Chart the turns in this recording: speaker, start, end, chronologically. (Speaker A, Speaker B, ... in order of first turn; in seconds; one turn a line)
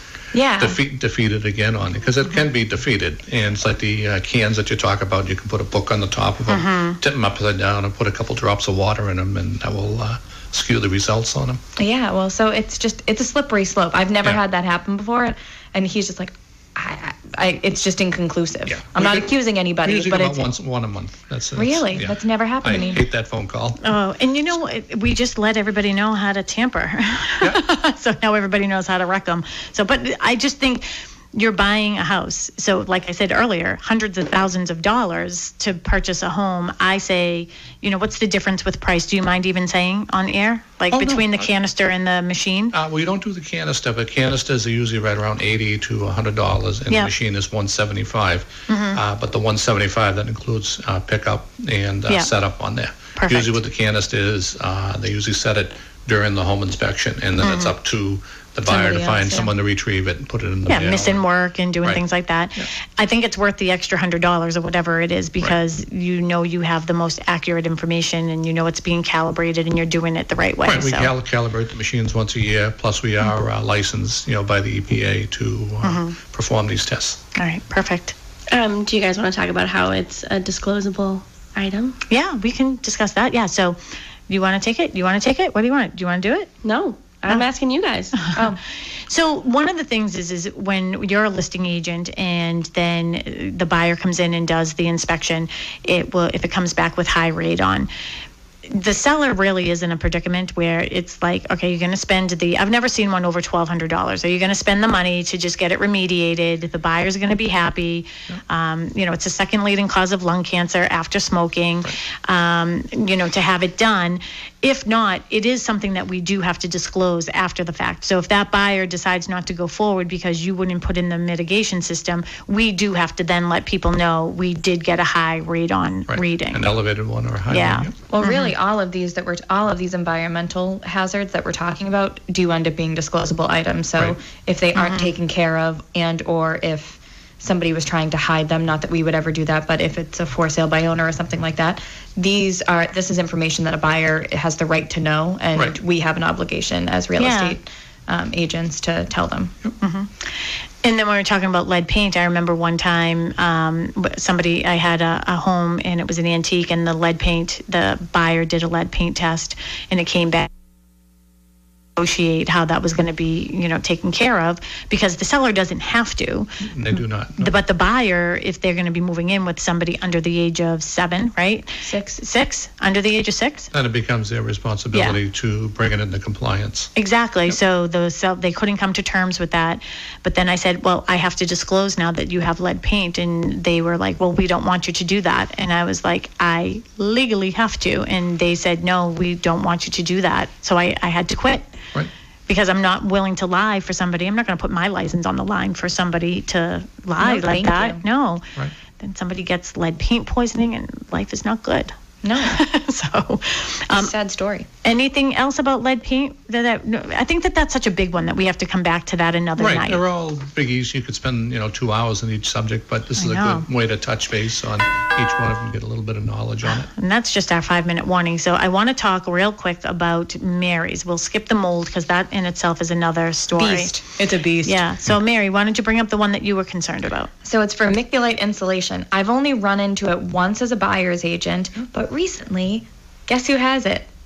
Speaker A: 0.3-0.8
Speaker B: 0.6-11.6
Speaker C: 6.5-7.0
Speaker A: 11.8-20.4
Speaker B: 18.7-19.3
Speaker B: 19.8-23.8
Speaker A: 21.6-23.0
Speaker C: 23.8-42.7
Speaker B: 40.9-41.5
Speaker B: 42.7-61.2
Speaker C: 48.7-49.0
Speaker C: 53.2-53.6
Speaker C: 57.4-57.8
Speaker A: 58.7-59.5
Speaker C: 60.7-71.1
Speaker B: 70.7-77.2
Speaker C: 75.8-76.2
Speaker C: 77.3-78.2
Speaker D: 78.5-82.0
Speaker C: 82.1-86.5
Speaker D: 86.6-88.2
Speaker C: 88.3-97.9
Speaker A: 88.3-88.6
Speaker C: 98.7-126.7
Speaker B: 126.1-127.9
Speaker C: 127.5-128.6
Speaker A: 128.1-149.5
Speaker C: 134.8-135.1
Speaker C: 147.2-147.6
Speaker C: 149.8-160.5
Speaker C: 162.0-166.6
Speaker B: 166.6-167.5
Speaker C: 167.4-173.7
Speaker A: 171.8-172.2
Speaker B: 173.7-176.9
Speaker C: 174.9-175.2
Speaker C: 177.0-191.7
Speaker C: 192.5-198.5
Speaker A: 197.2-198.0
Speaker C: 199.0-204.1
Speaker A: 202.2-202.6
Speaker A: 203.9-204.7
Speaker C: 204.8-210.0
Speaker B: 209.6-216.9
Speaker C: 213.2-213.7
Speaker C: 216.7-223.9
Speaker A: 223.6-224.8
Speaker C: 224.6-227.3
Speaker A: 227.4-234.1